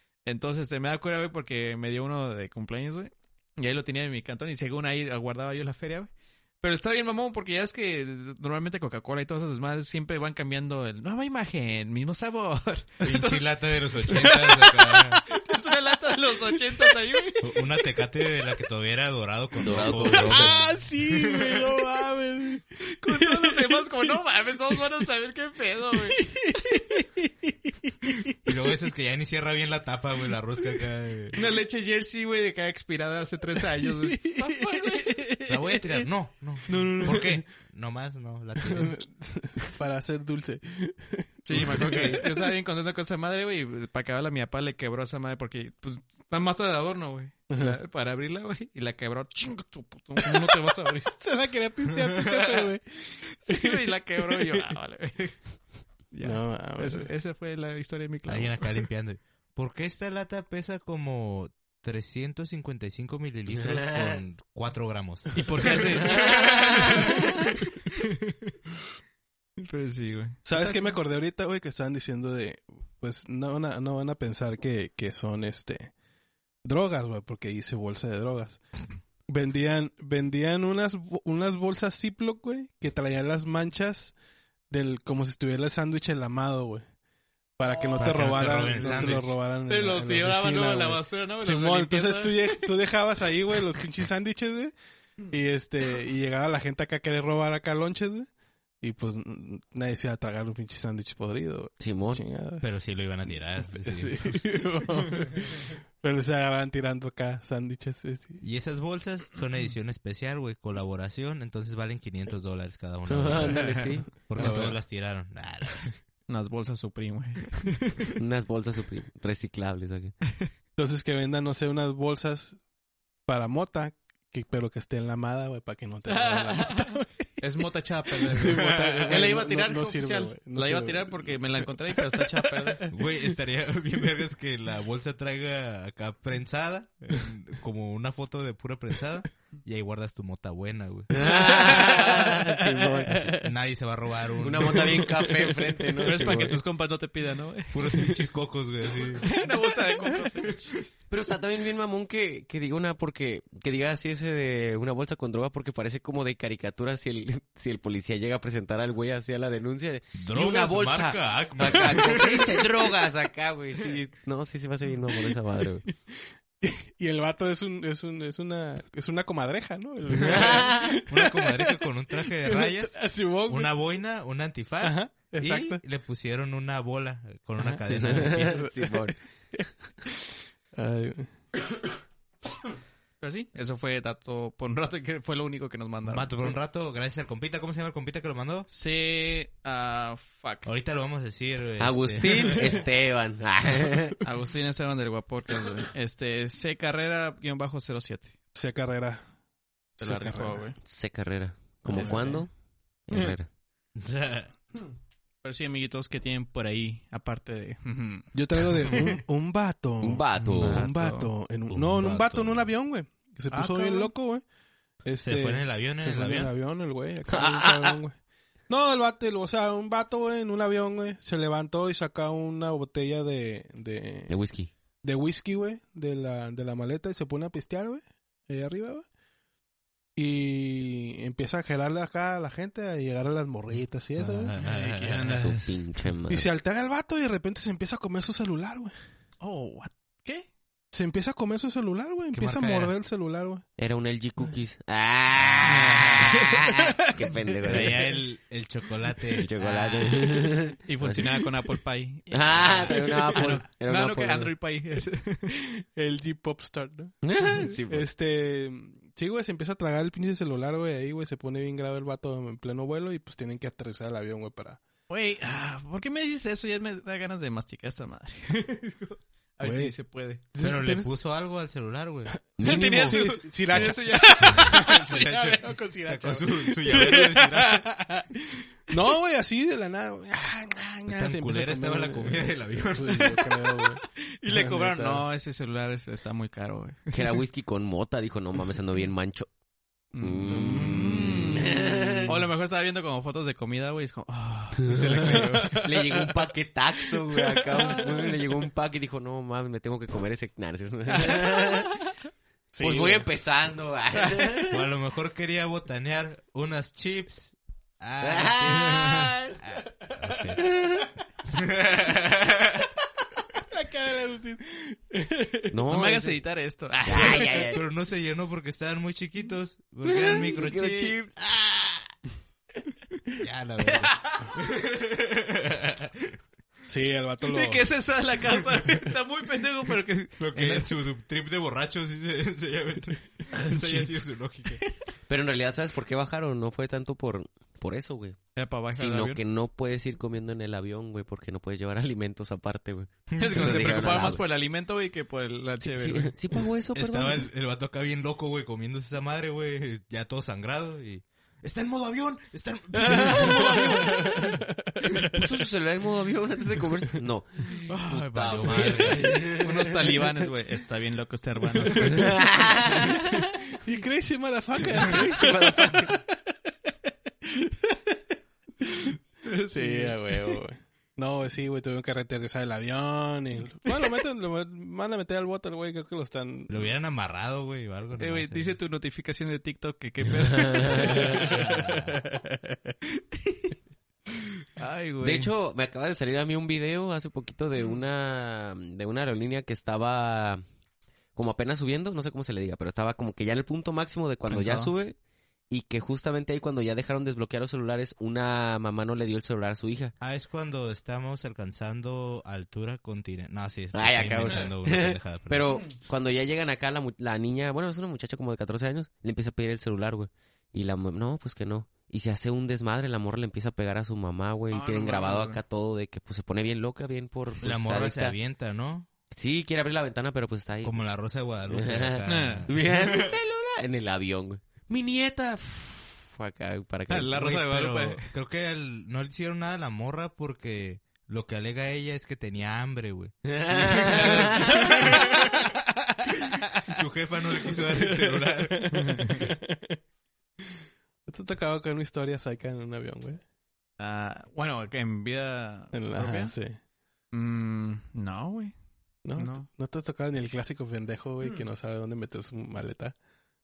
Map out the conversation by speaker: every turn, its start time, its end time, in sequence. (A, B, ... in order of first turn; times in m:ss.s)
0:00.2-0:13.4 A
0:13.0-0:15.2 B
0:14.1-0:17.4 A
0:17.4-0:21.6 B
0:19.6-0:20.6 C
0:19.9-0:23.9 D
0:22.8-0:26.9 A
0:25.9-0:28.3 D
0:28.4-0:31.4 B
0:31.3-0:35.2 A
0:33.8-0:36.0 D
0:35.4-0:39.0 B
0:36.7-0:37.2 A
0:36.7-0:37.4 D
0:38.6-0:42.5 D
0:41.4-0:51.1 A
0:47.5-0:47.8 D
0:50.2-0:54.7 D
0:53.4-0:55.4 A
0:56.1-0:58.8 A
0:56.2-0:57.1 D
0:58.3-1:05.9 B
1:03.5-1:04.2 C
1:05.3-1:08.5 A
1:05.6-1:06.4 D
1:06.1-1:07.2 C
1:09.6-1:11.0 A
1:10.4-1:15.9 D
1:16.6-1:18.6 D
1:19.3-1:24.1 D
1:24.7-1:26.8 D
1:27.6-1:34.7 D
1:27.7-1:32.7 A
1:28.0-1:29.3 B
1:35.3-1:38.3 D
1:38.8-1:42.6 D
1:41.8-1:42.2 C
1:42.6-1:44.4 B
1:43.6-1:48.4 D
1:48.4-1:55.9 B
1:53.1-1:54.1 C
1:53.6-1:53.8 A
1:54.4-1:54.8 D
1:56.3-1:58.1 A
1:58.2-2:00.1 C
2:00.8-2:02.6 D
2:03.3-2:07.4 D
2:06.1-2:12.9 A
2:08.1-2:13.0 D
2:08.4-2:09.2 B
2:12.9-2:21.6 B
2:21.1-2:23.3 C
2:21.5-2:23.4 D
2:23.2-2:25.2 B
2:24.4-2:26.6 C
2:26.0-2:28.1 A
2:27.7-2:29.4 B
2:29.2-2:30.6 A
2:30.0-2:30.3 D
2:31.1-2:45.8 C
2:40.2-2:42.6 B
2:45.8-2:53.7 D
2:50.2-2:51.0 C
2:51.0-2:58.7 B
2:54.8-2:55.8 D
2:57.6-3:01.3 D
2:57.9-2:59.1 C
3:03.2-3:06.5 A
3:06.0-3:08.7 B
3:08.7-3:10.7 A
3:10.6-3:12.8 B
3:11.8-3:14.2 C
3:14.2-3:18.3 A
3:18.5-3:19.3 D
3:20.0-3:20.6 D
3:20.0-3:20.8 A
3:20.8-3:22.5 C
3:21.8-3:22.2 D
3:21.9-3:22.4 A
3:23.1-3:23.5 C
3:24.0-3:24.5 B
3:25.4-3:29.1 A
3:28.3-3:34.4 D
3:30.0-3:30.8 C
3:30.4-3:31.3 A
3:31.7-3:32.5 B
3:33.5-3:34.1 A
3:35.0-3:38.2 D
3:35.2-3:36.5 B
3:37.3-3:38.0 C
3:38.7-3:44.3 D
3:44.3-3:44.7 C
3:45.0-3:49.0 D
3:50.2-3:54.5 D
3:54.2-3:55.4 B
3:54.5-3:55.8 A
3:55.2-3:56.4 C
3:56.3-3:58.9 D
3:59.4-4:00.5 A
4:00.9-4:03.6 D
4:02.3-4:02.9 B
4:03.8-4:08.1 C
4:05.6-4:06.6 A
4:07.2-4:07.9 D
4:07.7-4:10.5 B
4:09.4-4:11.4 C
4:10.9-4:15.5 A
4:12.3-4:14.5 C
4:12.6-4:12.9 B
4:15.7-4:24.8 D
4:17.2-4:18.0 C
4:25.1-4:30.4 A
4:29.6-4:29.9 D
4:30.5-4:31.1 D
4:30.6-4:32.4 B
4:32.4-4:45.2 D
4:32.6-4:33.2 C
4:32.6-4:34.9 A
4:33.7-4:37.9 B
4:41.1-4:43.5 B
4:44.2-4:47.4 A
4:47.1-4:49.5 C
4:50.1-4:55.8 A
4:50.2-4:52.4 C
4:50.5-4:52.4 D
4:54.8-5:02.0 C
4:55.2-4:56.2 D
4:57.8-4:58.0 A
5:02.7-5:03.3 D
5:02.8-5:04.8 C
5:04.7-5:10.6 B
5:08.2-5:09.6 C
5:10.2-5:11.1 C
5:11.5-5:12.9 B
5:13.4-5:15.8 D
5:15.7-5:16.4 C
5:15.9-5:17.6 A
5:17.0-5:17.8 C
5:17.7-5:22.1 B
5:20.0-5:21.4 C
5:23.4-5:26.4 B
5:23.8-5:24.5 A
5:26.9-5:27.9 D
5:27.4-5:30.9 A
5:30.4-5:34.8 B
5:35.3-5:38.4 C
5:38.5-5:39.4 A
5:38.9-5:44.4 C
5:43.3-5:44.1 B
5:43.4-5:46.3 A
5:45.8-5:47.4 C
5:46.9-5:54.6 B
5:53.1-5:53.9 C
5:53.1-5:55.4 D
5:55.3-6:00.2 C
5:57.9-5:59.5 B
5:59.5-6:02.4 A
6:01.9-6:02.3 D
6:01.9-6:03.4 C
6:03.7-6:09.2 D
6:05.0-6:06.2 C
6:09.4-6:10.6 A
6:09.7-6:16.9 D
6:16.7-6:18.8 B
6:18.2-6:21.6 A
6:20.4-6:21.4 C
6:21.1-6:22.2 B
6:21.3-6:22.9 D
6:23.2-6:23.8 A
6:24.8-6:25.5 A
6:25.2-6:30.6 C
6:31.3-6:35.2 C
6:34.5-6:34.9 A
6:35.7-6:40.1 C
6:40.2-6:45.7 B
6:43.9-6:58.3 C
6:54.7-6:55.6 A
6:57.6-6:59.1 B
6:59.3-7:01.0 C
7:00.8-7:03.3 B
7:01.7-7:07.4 C
7:02.2-7:02.7 A
7:07.1-7:08.3 A
7:07.3-7:15.6 B
7:13.5-7:14.8 C
7:16.3-7:18.9 B
7:17.6-7:20.0 D
7:19.0-7:19.4 A
7:21.2-7:23.4 D
7:24.0-7:26.5 A
7:25.9-7:26.8 D
7:27.3-7:28.7 A
7:29.2-7:33.2 D
7:29.4-7:29.7 A